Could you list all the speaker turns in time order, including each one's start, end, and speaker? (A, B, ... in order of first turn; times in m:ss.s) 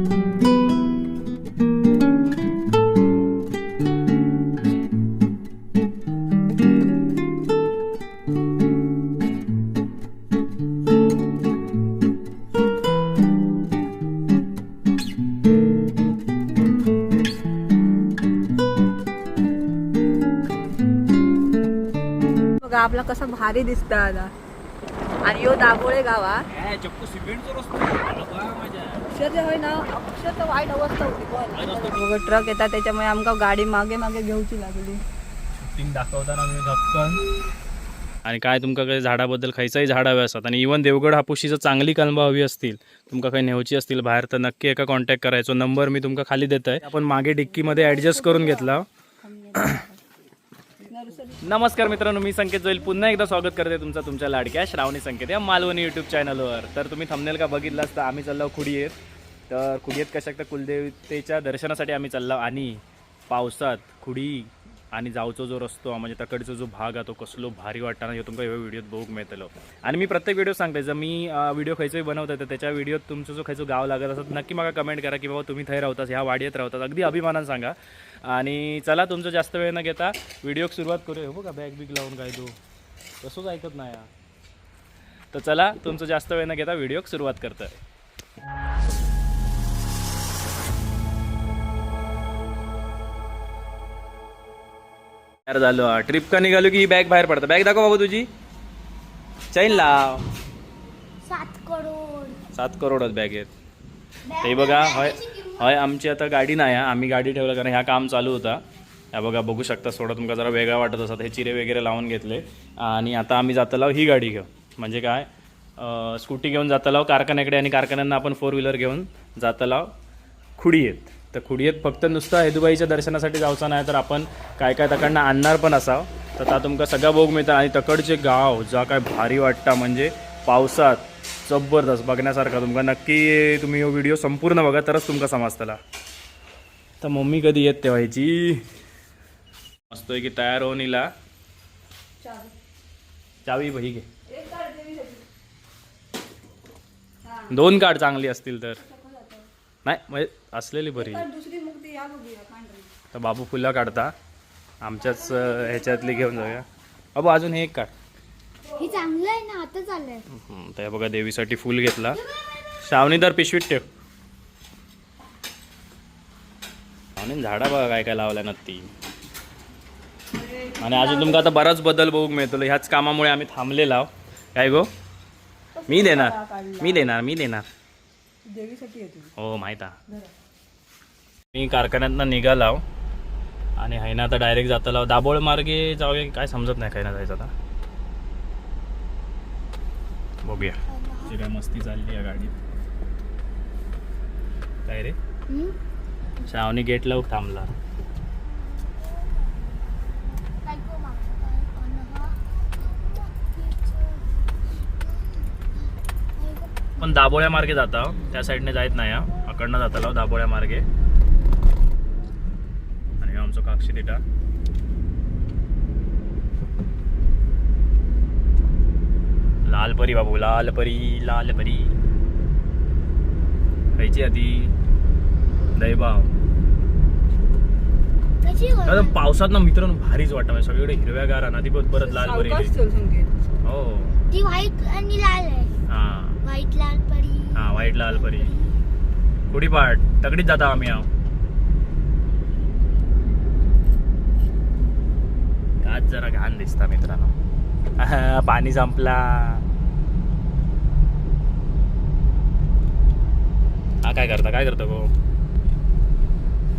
0:22.6-0:24.3 A
0:25.2-0:26.5 A
0:26.5-0:29.1 B
0:29.1-0:35.0 A
0:31.5-0:32.0 B
0:35.6-0:37.2 B
0:38.2-0:48.9 B
0:47.4-0:50.0 A
0:50.9-0:51.5 A
0:51.4-0:58.9 B
0:59.5-1:22.6 B
1:23.2-1:24.1 B
1:25.3-1:27.8 B
1:35.5-1:38.3 B
1:39.5-1:40.2 B
1:41.2-1:42.4 C
1:42.5-1:43.5 B
1:44.2-1:45.7 C
1:44.4-1:59.9 B
2:00.6-2:15.8 B
2:17.0-2:18.6 B
2:19.9-2:21.1 B
2:22.2-2:22.5 A
2:23.4-2:24.1 B
2:24.3-2:25.2 A
2:27.2-2:27.6 A
2:27.5-2:28.8 B
2:28.8-2:29.5 A
2:29.8-2:31.3 B
2:31.0-2:32.9 A
2:33.1-2:34.1 B
2:34.8-2:37.9 B
2:35.0-2:36.6 A
2:38.8-2:40.2 C
2:40.3-2:42.2 B
2:42.8-2:43.9 B
2:47.2-2:48.9 B
2:50.3-2:51.5 A
2:50.8-2:54.9 B
2:55.8-2:57.1 A
2:55.9-2:57.7 B
2:58.5-2:59.3 A
2:59.4-3:00.0 B
3:01.5-3:02.8 B
3:03.8-3:07.5 B
3:10.4-3:12.5 B
3:10.8-3:11.4 C
3:14.9-3:15.2 B
3:15.5-3:15.8 C
3:16.4-3:17.7 B
3:18.4-3:27.3 C
3:27.0-3:30.9 B
3:33.2-3:34.2 B
3:39.6-3:42.0 B
3:44.0-3:44.7 B
3:45.7-3:46.3 B
3:48.4-3:49.2 C
3:48.9-3:52.7 B
3:52.0-3:53.4 A
3:53.6-3:54.1 B
3:54.2-3:55.7 C
3:55.9-3:56.4 B
3:56.4-3:58.7 C
3:57.6-3:58.5 B
3:59.5-4:01.1 B
4:05.8-4:07.3 B
4:08.0-4:09.6 B
4:14.0-4:15.1 B